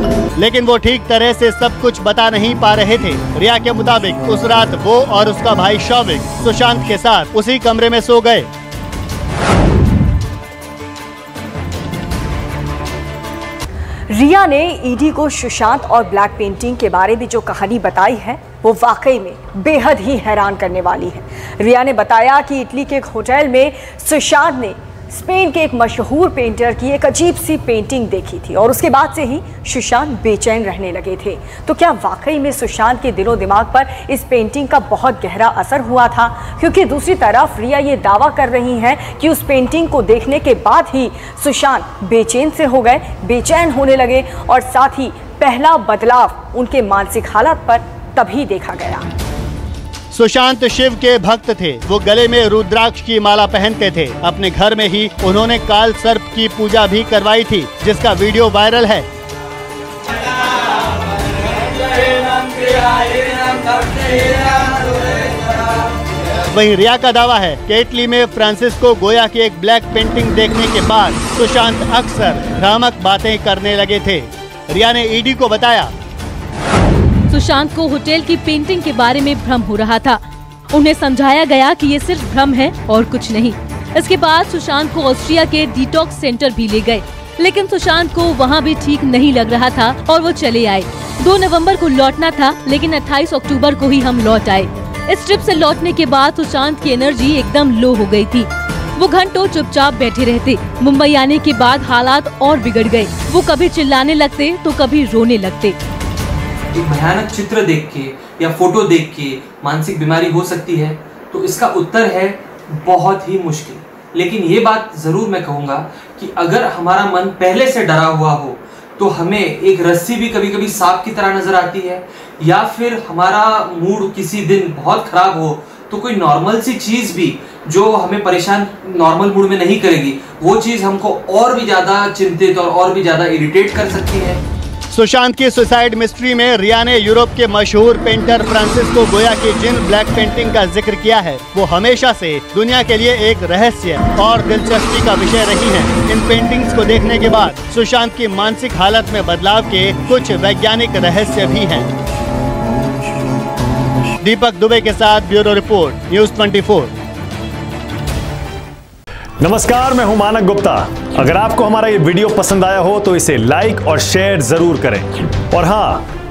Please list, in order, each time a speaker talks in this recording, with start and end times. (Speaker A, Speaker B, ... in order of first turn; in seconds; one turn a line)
Speaker A: 0.4-8.5
Speaker B: 14.1-49.1
Speaker A: 50.1-59.1
Speaker C: 62.5-63.1
Speaker A: 66.5-75.9
Speaker D: 77.3-80.2
Speaker D: 80.7-105.8
Speaker C: 106.7-134.4
Speaker A: 134.9-151.9
Speaker A: 154.2-156.9
Speaker E: 159.4-166.0